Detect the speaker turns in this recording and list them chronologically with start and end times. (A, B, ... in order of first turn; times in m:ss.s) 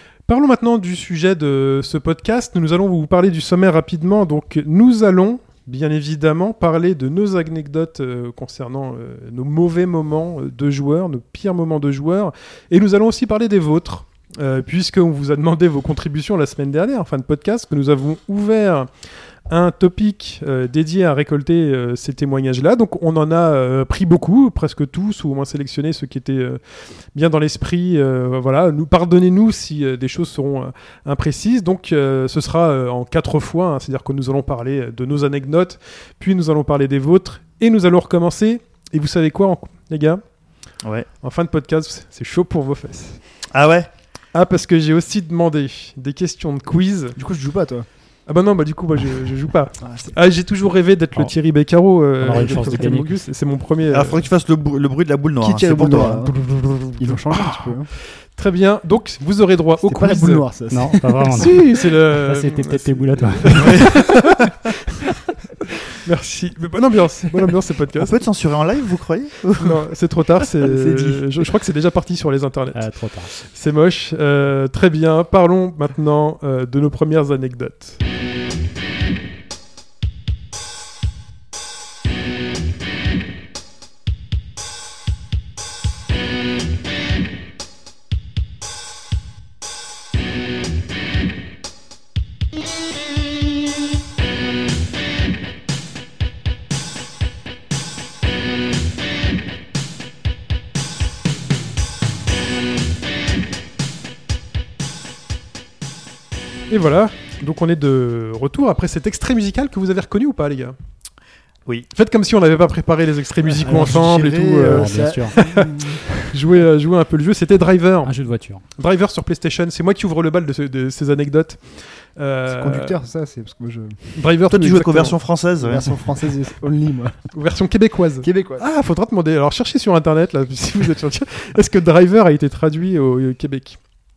0:00.3-0:40.2 A
0:40.8-0:41.1 B
0:41.2-0:43.2 A
0:43.5-0:43.9 B
0:44.3-0:47.2 A
0:47.2-0:47.9 C
0:48.2-0:54.2 A
0:49.8-0:50.1 C
0:52.2-0:53.2 D
0:52.4-0:52.8 C
0:53.9-0:56.2 B
0:55.4-0:57.9 C
0:56.2-1:00.4 A
0:59.8-1:01.7 C
1:00.7-1:03.9 D
1:01.3-1:04.4 A
1:06.0-1:08.2 A
1:08.0-1:09.8 B
1:09.6-1:18.0 A
1:10.6-1:11.5 C
1:12.7-1:13.3 D
1:46.7-1:50.8 A
1:51.9-1:55.7 A
1:53.6-1:56.3 C
1:53.7-1:54.0 D
1:54.6-1:55.4 D
1:56.3-1:58.1 A
1:58.0-1:58.6 D
1:58.7-2:02.9 A
2:02.5-2:04.1 C
2:04.1-2:05.2 A
2:04.5-2:06.0 B
2:05.6-2:07.3 C
2:07.3-2:13.8 A
2:08.2-2:08.6 C